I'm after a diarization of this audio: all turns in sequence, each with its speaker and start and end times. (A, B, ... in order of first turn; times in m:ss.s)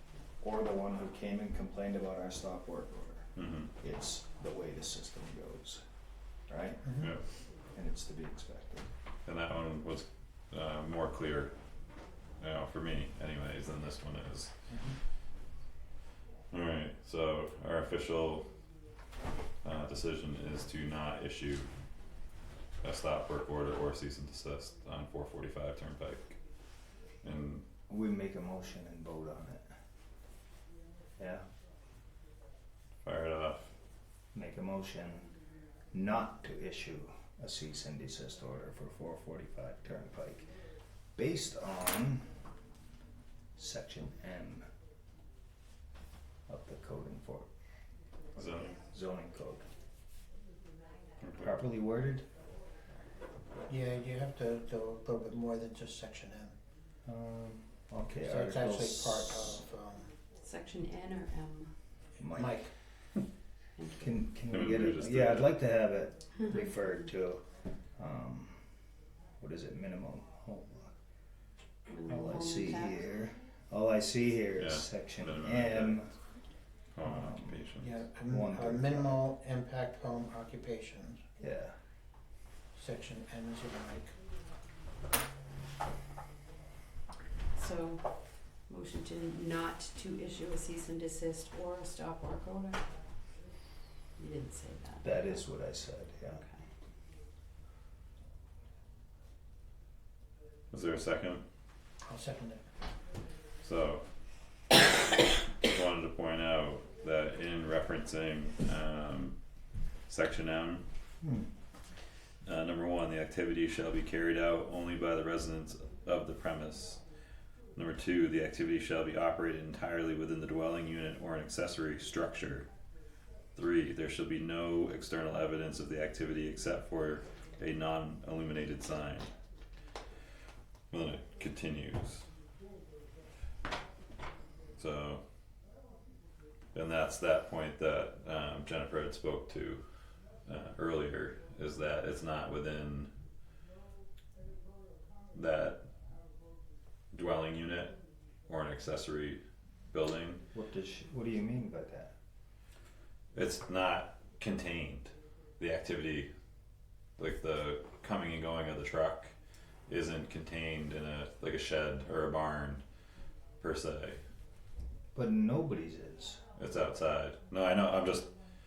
0:00.4-0:03.3 A
0:03.4-0:03.7 B
0:03.8-0:05.8 A
0:06.5-0:06.9 A
0:06.8-0:07.1 C
0:07.7-0:08.9 A
0:09.2-0:11.5 B
0:12.4-0:14.5 B
0:16.5-0:18.5 B
0:19.6-0:21.7 B
0:22.8-0:26.4 B
0:27.2-0:27.6 B
0:27.9-0:29.6 A
0:31.2-0:31.4 A
0:33.0-0:33.7 B
0:34.3-0:35.3 A
0:35.9-0:40.5 A
0:41.2-0:42.3 A
0:43.6-0:44.7 A
0:46.5-0:47.5 A
0:48.4-0:48.8 B
0:48.7-0:49.7 A
0:51.2-0:51.6 B
0:51.4-0:52.2 A
0:53.7-0:56.5 C
0:57.1-0:59.6 A
0:58.2-1:00.1 C
1:00.4-1:01.7 D
1:02.2-1:02.6 A
1:02.3-1:02.7 C
1:03.8-1:04.2 D
1:04.0-1:07.4 A
1:04.5-1:05.6 B
1:08.0-1:08.6 A
1:09.4-1:10.9 A
1:11.9-1:13.0 D
1:12.1-1:16.1 A
1:14.6-1:16.0 B
1:17.0-1:18.0 B
1:17.0-1:17.6 A
1:17.8-1:21.2 C
1:18.3-1:19.2 A
1:21.4-1:21.7 A
1:22.8-1:24.1 C
1:27.5-1:28.1 D
1:28.7-1:32.8 D
1:34.2-1:35.4 D
1:35.0-1:36.4 A
1:36.3-1:36.6 D
1:40.7-1:41.4 B
1:42.0-1:42.7 C
1:43.6-1:44.0 B
1:45.6-1:49.4 B
1:50.1-1:50.8 B
1:51.2-1:51.5 A
1:52.4-1:57.0 B
1:57.7-2:02.7 B
2:03.6-2:09.3 B
2:10.9-2:12.3 B
2:14.8-2:15.2 B
2:16.7-2:19.8 B
2:20.5-2:23.1 B
2:25.3-2:25.8 B
2:27.1-2:30.4 B
2:30.5-2:32.1 A
2:33.3-2:36.3 B
2:37.2-2:39.3 B
2:39.9-2:42.8 B
2:43.6-2:44.2 B
2:45.1-2:46.4 A
2:46.6-2:48.3 B